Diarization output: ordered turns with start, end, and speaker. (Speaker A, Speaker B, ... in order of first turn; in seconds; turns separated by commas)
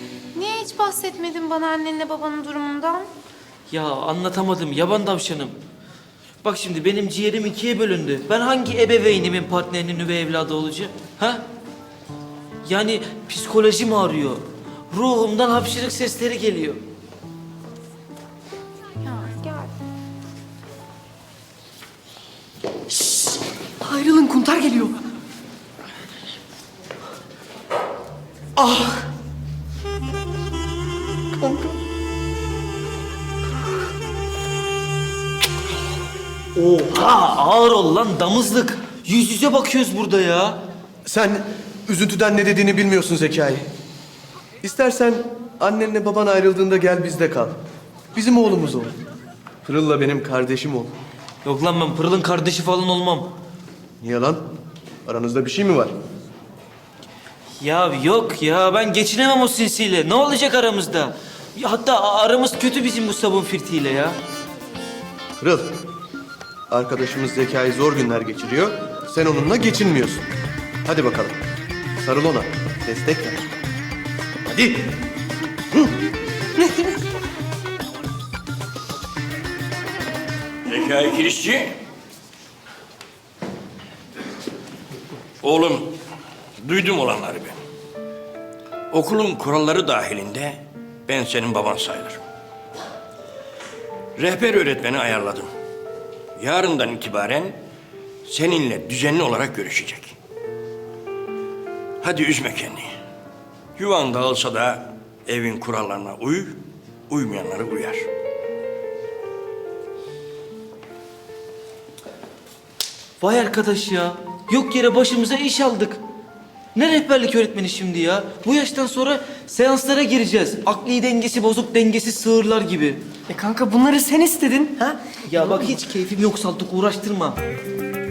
Speaker A: 0.3-3.1, Speaker B: 3.7-5.5, Speaker B: 6.4-11.4, Speaker B: 12.6-16.8, Speaker A: 19.0-19.7, Speaker C: 22.9-24.9, Speaker C: 28.7-28.9, Speaker B: 36.5-40.6, Speaker D: 41.0-43.7, Speaker D: 44.6-47.6, Speaker D: 48.1-49.0, Speaker D: 49.6-50.9, Speaker B: 51.4-53.3, Speaker D: 54.0-54.5, Speaker D: 55.0-55.9, Speaker B: 57.6-64.2, Speaker D: 65.4-65.7, Speaker D: 66.7-70.2, Speaker D: 70.8-71.4, Speaker D: 72.0-73.4, Speaker D: 74.5-75.0, Speaker E: 80.7-81.8, Speaker E: 85.4-86.0, Speaker E: 86.6-87.6, Speaker E: 88.9-92.2, Speaker E: 94.2-95.5, Speaker E: 96.4-97.6, Speaker E: 98.2-100.2, Speaker E: 102.0-102.9, Speaker E: 103.8-108.1, Speaker B: 113.2-116.0, Speaker B: 116.7-123.0, Speaker C: 123.3-124.9, Speaker B: 125.1-127.4